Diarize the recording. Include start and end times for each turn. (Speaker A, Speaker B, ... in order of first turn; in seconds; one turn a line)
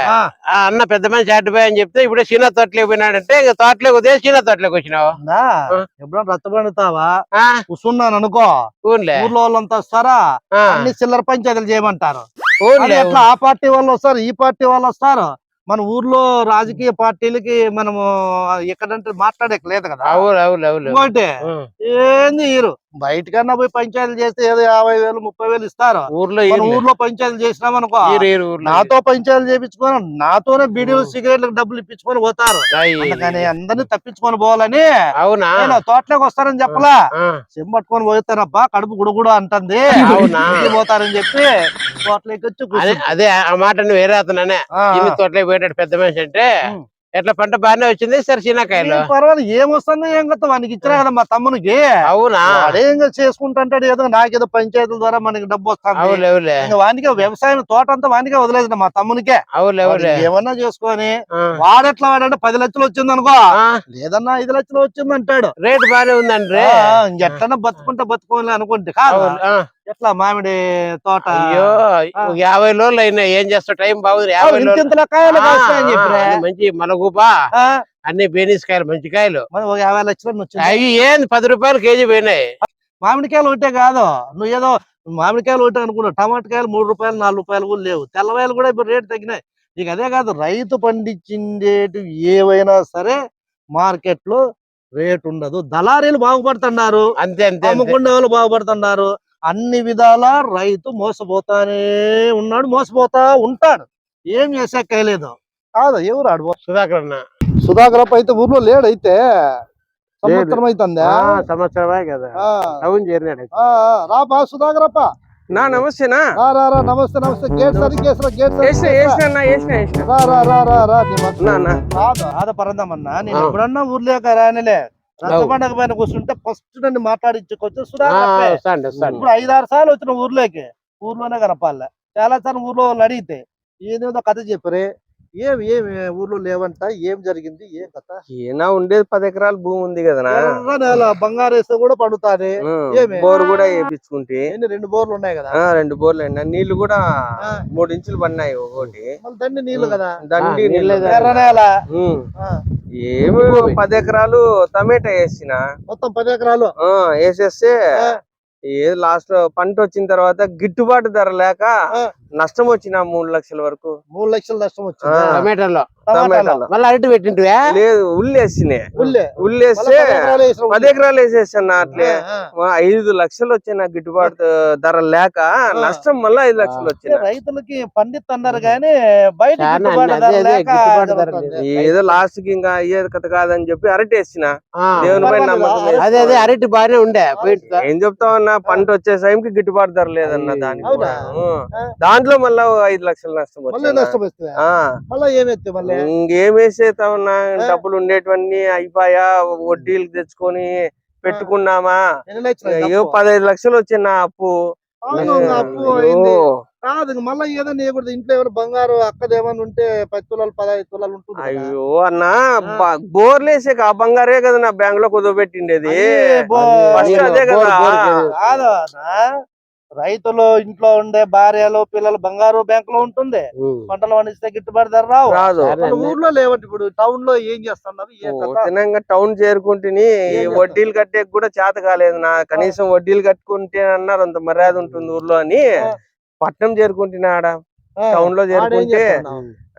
Speaker A: 0.5-5.1
Speaker B: 5.2-7.1
Speaker B: 7.7-8.5
Speaker A: 8.9-9.3
Speaker B: 9.2-10.2
Speaker A: 10.6-10.8
Speaker B: 10.7-12.2
Speaker A: 12.6-13.2
Speaker B: 12.8-20.2
Speaker A: 20.1-21.7
Speaker B: 20.9-21.3
Speaker B: 21.9-34.9
Speaker A: 26.1-26.8
Speaker A: 28.1-28.9
Speaker A: 30.8-31.1
Speaker A: 32.7-33.5
Speaker A: 35.2-35.7
Speaker B: 35.6-37.0
Speaker A: 36.7-37.4
Speaker B: 37.5-41.5
Speaker A: 39.9-40.7
Speaker B: 42.0-43.0
Speaker A: 42.7-46.5
Speaker B: 44.8-45.2
Speaker A: 47.1-49.1
Speaker B: 48.7-51.9
Speaker A: 52.0-52.6
Speaker B: 52.5-63.4
Speaker A: 56.0-56.6
Speaker A: 59.5-60.2
Speaker A: 63.5-63.8
Speaker B: 63.9-65.5
Speaker A: 65.6-67.4
Speaker B: 66.5-72.3
Speaker A: 69.1-69.7
Speaker A: 71.3-77.3
Speaker B: 74.4-76.4
Speaker A: 78.1-79.4
Speaker B: 79.5-80.8
Speaker A: 80.6-82.4
Speaker B: 83.0-93.2
Speaker B: 93.8-94.4
Speaker B: 95.0-97.0
Speaker A: 97.2-98.0
Speaker B: 97.6-106.5
Speaker A: 106.7-107.2
Speaker B: 107.7-109.2
Speaker B: 110.2-111.4
Speaker A: 110.2-113.5
Speaker B: 112.4-112.8
Speaker B: 113.6-115.1
Speaker C: 115.5-116.2
Speaker A: 115.5-115.8
Speaker B: 116.4-119.2
Speaker C: 117.7-118.0
Speaker C: 118.6-120.1
Speaker B: 120.0-128.6
Speaker C: 121.4-121.8
Speaker A: 125.3-125.5
Speaker A: 128.0-129.2
Speaker C: 129.0-129.2
Speaker B: 129.1-134.9
Speaker B: 135.4-138.2
Speaker C: 138.3-140.4
Speaker B: 140.3-143.3
Speaker C: 142.6-144.5
Speaker B: 144.5-145.6
Speaker C: 145.5-149.1
Speaker B: 149.2-150.1
Speaker C: 149.7-152.2
Speaker A: 150.4-151.3
Speaker B: 151.1-151.7
Speaker C: 153.0-155.6
Speaker A: 153.2-153.8
Speaker B: 155.9-156.7
Speaker C: 156.8-157.8
Speaker C: 158.7-161.7
Speaker C: 162.4-163.9
Speaker B: 164.1-165.4
Speaker C: 165.1-165.4
Speaker A: 165.3-165.9
Speaker B: 166.1-166.6
Speaker C: 166.1-166.7
Speaker A: 166.7-167.7
Speaker C: 167.7-170.1
Speaker B: 169.0-170.9
Speaker C: 170.7-172.1
Speaker B: 171.9-172.4
Speaker C: 172.6-177.2
Speaker B: 175.7-176.0
Speaker A: 176.6-176.9
Speaker B: 177.0-181.7
Speaker A: 178.5-178.8
Speaker A: 179.6-181.9
Speaker C: 181.6-186.5
Speaker A: 184.8-185.3
Speaker B: 185.0-186.4
Speaker A: 186.0-187.8
Speaker B: 187.4-187.6
Speaker C: 187.8-194.8
Speaker A: 190.2-191.2
Speaker B: 190.8-191.2
Speaker B: 193.7-194.6
Speaker B: 195.1-196.1
Speaker C: 195.9-202.0
Speaker B: 202.3-203.2
Speaker C: 202.7-204.5
Speaker B: 205.1-211.7
Speaker A: 205.2-205.9
Speaker C: 205.2-206.5
Speaker C: 211.4-216.1
Speaker B: 215.9-217.4
Speaker A: 216.5-218.3
Speaker C: 216.9-218.6
Speaker B: 218.4-219.2
Speaker B: 220.0-228.7
Speaker A: 223.6-223.9
Speaker C: 225.3-225.7
Speaker A: 225.6-226.2
Speaker C: 228.3-235.6
Speaker B: 230.3-230.8
Speaker A: 230.3-230.6
Speaker C: 236.4-237.5
Speaker B: 238.0-239.4
Speaker C: 238.1-239.1